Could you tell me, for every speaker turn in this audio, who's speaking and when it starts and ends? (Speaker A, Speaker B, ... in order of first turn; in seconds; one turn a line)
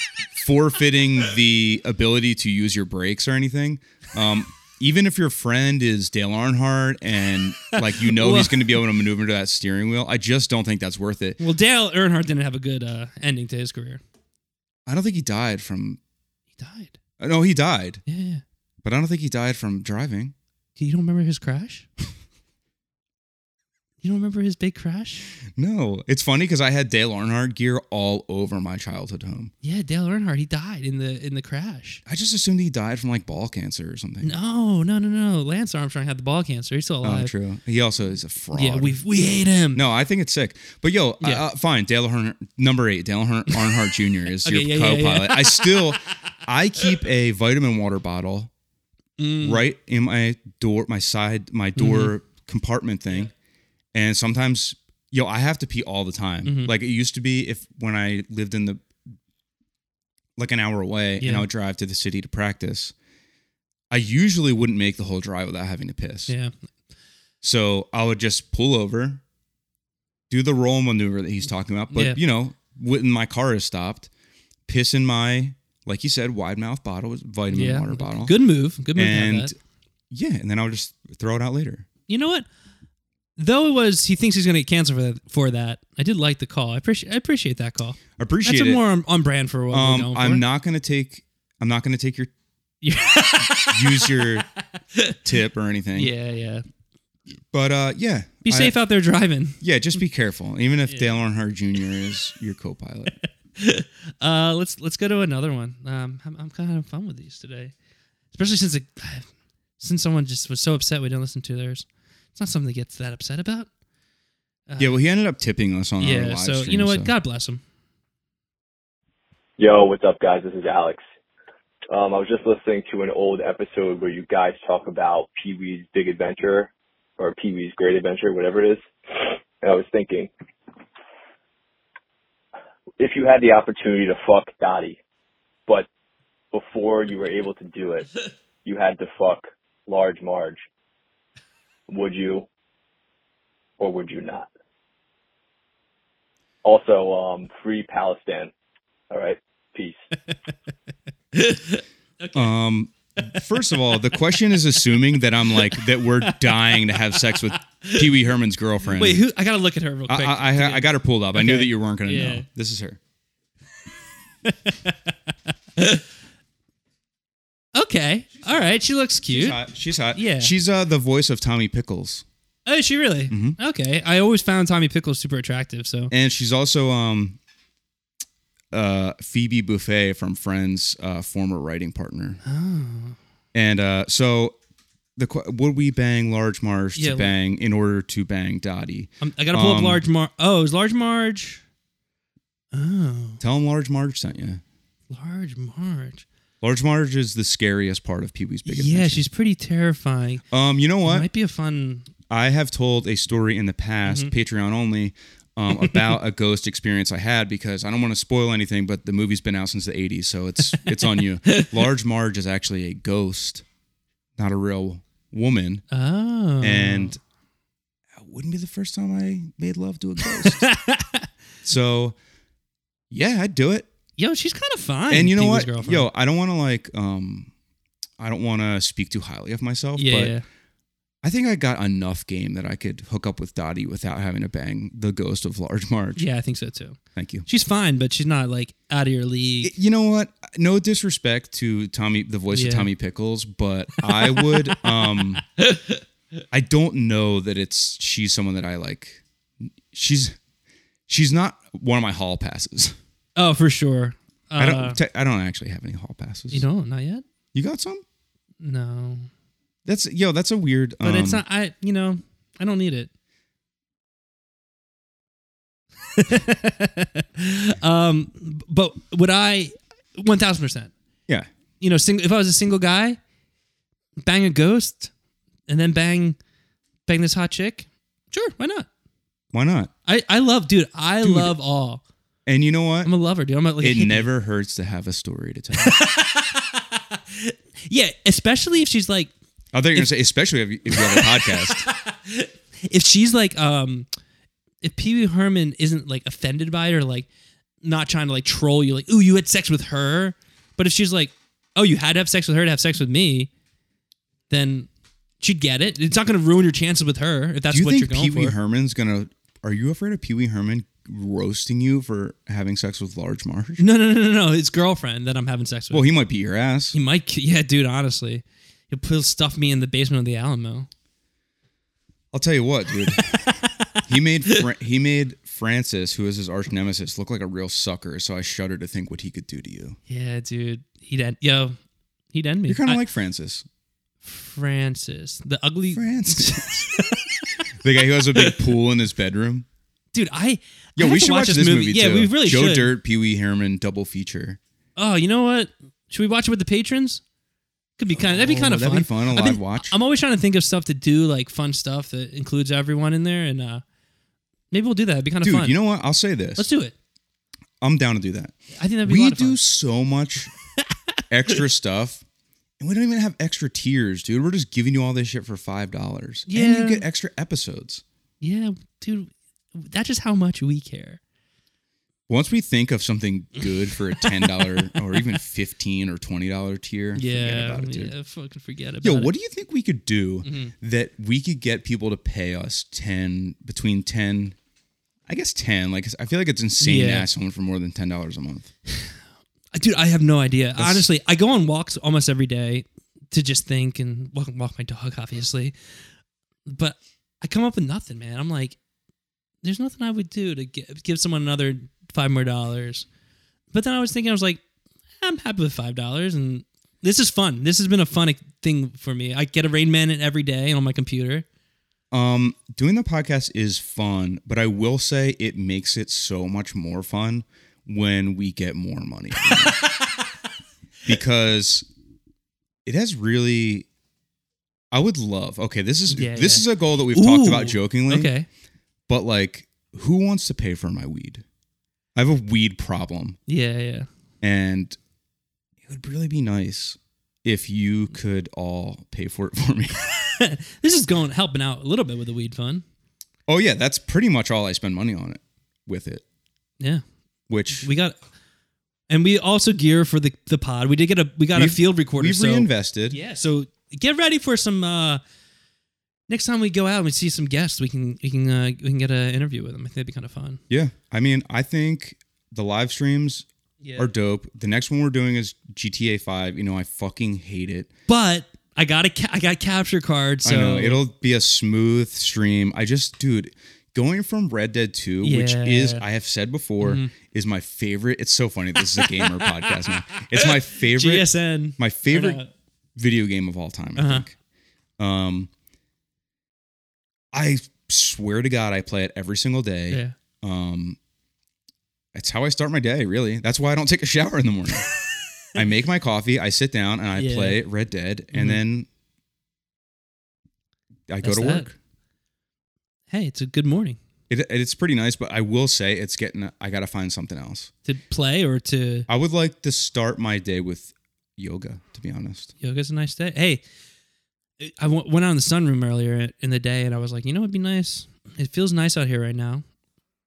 Speaker A: 0.3-11.4
Speaker B: 7.8-8.7
Speaker B: 11.4-14.0
Speaker A: 14.9-16.0
Speaker B: 16.6-17.0
Speaker A: 17.2-18.0
Speaker B: 18.1-18.4
Speaker A: 18.8-20.4
Speaker B: 20.8-21.9
Speaker B: 24.0-25.3
Speaker A: 25.5-29.5
Speaker B: 29.6-32.0
Speaker A: 32.1-34.3
Speaker B: 34.2-37.3
Speaker A: 37.0-39.0
Speaker B: 38.5-39.8
Speaker A: 39.7-48.5
Speaker B: 44.4-45.9
Speaker B: 49.2-49.6
Speaker A: 49.4-53.3
Speaker B: 51.8-52.1
Speaker A: 53.9-58.8
Speaker B: 56.5-56.7
Speaker A: 60.4-62.9
Speaker B: 61.2-61.5
Speaker A: 63.9-66.3
Speaker B: 66.3-66.5
Speaker A: 67.4-69.2
Speaker A: 70.3-74.1
Speaker B: 71.9-72.2
Speaker A: 74.7-78.3
Speaker B: 77.5-79.5
Speaker A: 79.0-79.5
Speaker A: 80.1-81.9
Speaker B: 82.1-82.5
Speaker B: 83.4-90.4
Speaker A: 88.2-88.8
Speaker A: 89.7-92.3
Speaker B: 92.8-94.3
Speaker A: 93.4-94.5
Speaker A: 95.2-96.1
Speaker B: 96.0-96.6
Speaker A: 97.5-98.8
Speaker B: 98.5-99.6
Speaker A: 99.6-103.2
Speaker B: 103.6-107.7
Speaker B: 108.3-113.7
Speaker B: 114.7-115.0
Speaker A: 114.8-117.1
Speaker B: 116.0-117.6
Speaker C: 119.6-121.0
Speaker C: 121.9-130.3
Speaker C: 133.0-135.0
Speaker C: 136.5-138.1
Speaker C: 138.7-140.6
Speaker C: 141.9-142.5
Speaker C: 143.8-144.5
Speaker C: 146.6-148.5
Speaker C: 149.1-150.0
Speaker B: 151.3-152.5
Speaker A: 152.3-159.2
Speaker B: 153.2-154.2
Speaker B: 155.7-158.0
Speaker B: 158.9-162.5
Speaker A: 160.1-163.0
Speaker B: 164.4-165.1
Speaker B: 167.8-169.6
Speaker A: 169.3-172.2
Speaker B: 170.1-170.5
Speaker B: 172.7-176.1
Speaker A: 173.3-173.6
Speaker A: 176.1-177.4
Speaker A: 178.7-182.4
Speaker B: 182.4-183.2
Speaker A: 183.5-184.6
Speaker A: 185.2-190.0
Speaker B: 187.0-187.3
Speaker B: 189.2-191.6
Speaker B: 192.7-193.4
Speaker A: 193.4-194.6
Speaker B: 195.1-196.2
Speaker A: 196.6-199.2
Speaker B: 198.7-200.4
Speaker A: 200.5-201.3
Speaker B: 201.1-202.1
Speaker A: 202.3-213.6
Speaker B: 204.1-204.3
Speaker B: 205.7-206.1
Speaker A: 214.4-215.8
Speaker B: 215.9-217.2
Speaker A: 216.6-217.2
Speaker A: 218.2-220.7
Speaker B: 220.4-221.3
Speaker A: 221.6-222.2
Speaker A: 223.1-223.9
Speaker B: 224.2-226.1
Speaker A: 225.1-227.5
Speaker A: 228.2-230.4
Speaker B: 230.0-230.4
Speaker A: 231.2-236.3
Speaker B: 236.2-239.7
Speaker A: 237.2-237.5
Speaker A: 239.6-245.4
Speaker B: 242.5-242.9
Speaker B: 244.0-244.9
Speaker A: 246.5-250.4
Speaker A: 251.1-253.0
Speaker B: 253.4-255.0
Speaker A: 254.6-256.7
Speaker B: 256.5-257.2
Speaker A: 257.5-258.0
Speaker B: 258.6-259.3
Speaker A: 259.9-261.4
Speaker B: 261.0-263.1
Speaker B: 266.1-270.9
Speaker B: 271.8-273.2
Speaker B: 274.2-275.1
Speaker B: 275.7-276.4
Speaker B: 277.1-278.9
Speaker A: 279.5-279.9
Speaker B: 280.1-282.0
Speaker A: 281.2-281.5
Speaker A: 282.5-283.1
Speaker B: 283.1-284.3
Speaker A: 283.8-286.0
Speaker B: 285.8-289.3
Speaker A: 289.7-291.9
Speaker B: 290.9-294.1
Speaker B: 294.8-297.3
Speaker B: 297.8-303.5
Speaker B: 304.5-304.9
Speaker B: 305.4-308.6
Speaker A: 307.7-313.8
Speaker B: 313.8-316.1
Speaker A: 315.9-317.0
Speaker B: 316.9-320.9
Speaker A: 322.3-330.0
Speaker B: 323.3-324.0
Speaker B: 330.1-331.8
Speaker B: 332.3-333.0
Speaker A: 332.7-333.7
Speaker B: 334.2-337.5
Speaker A: 335.9-337.0
Speaker A: 337.8-339.7
Speaker B: 340.1-342.9
Speaker A: 341.0-344.6
Speaker B: 345.0-347.2
Speaker B: 348.0-353.8
Speaker A: 348.1-350.0
Speaker B: 354.7-355.8
Speaker A: 355.4-356.7
Speaker B: 356.6-356.9
Speaker A: 357.8-360.5
Speaker B: 358.8-359.6
Speaker A: 361.3-362.2
Speaker A: 362.8-368.0
Speaker B: 366.5-367.1
Speaker B: 368.4-371.2
Speaker A: 372.3-378.1
Speaker B: 374.2-374.9
Speaker B: 377.2-379.3
Speaker A: 379.0-384.6
Speaker B: 380.4-380.7
Speaker A: 385.3-388.7
Speaker B: 386.8-387.3
Speaker B: 389.7-395.8
Speaker A: 390.8-391.1
Speaker B: 396.7-398.8
Speaker B: 399.6-403.1
Speaker B: 403.7-404.6
Speaker B: 405.2-411.5
Speaker A: 412.1-419.8
Speaker B: 419.4-420.2
Speaker A: 421.1-421.9
Speaker A: 422.9-423.9
Speaker A: 424.9-428.3
Speaker B: 426.1-428.5
Speaker A: 429.1-431.4
Speaker A: 432.1-433.4
Speaker B: 433.5-434.1
Speaker A: 434.4-435.0
Speaker A: 435.9-440.0
Speaker B: 440.2-442.9
Speaker A: 443.5-446.2
Speaker A: 447.5-447.9
Speaker B: 447.7-448.2
Speaker B: 449.1-455.2
Speaker A: 451.6-453.2
Speaker B: 456.3-460.6
Speaker A: 460.7-467.9
Speaker B: 463.8-464.1
Speaker B: 468.1-471.0
Speaker A: 470.4-482.4
Speaker B: 475.2-476.0
Speaker B: 476.8-477.1
Speaker B: 479.0-482.5
Speaker A: 483.0-484.4
Speaker B: 484.0-484.3
Speaker A: 485.0-485.5
Speaker A: 487.3-491.0
Speaker B: 489.9-490.1
Speaker A: 492.1-494.9
Speaker A: 495.6-498.9
Speaker B: 497.2-497.6
Speaker B: 498.3-498.6
Speaker A: 501.1-501.8
Speaker B: 501.2-501.7
Speaker B: 503.1-504.0
Speaker A: 504.3-507.7
Speaker B: 507.9-509.1
Speaker A: 509.1-512.5
Speaker B: 512.6-513.6
Speaker B: 514.6-519.6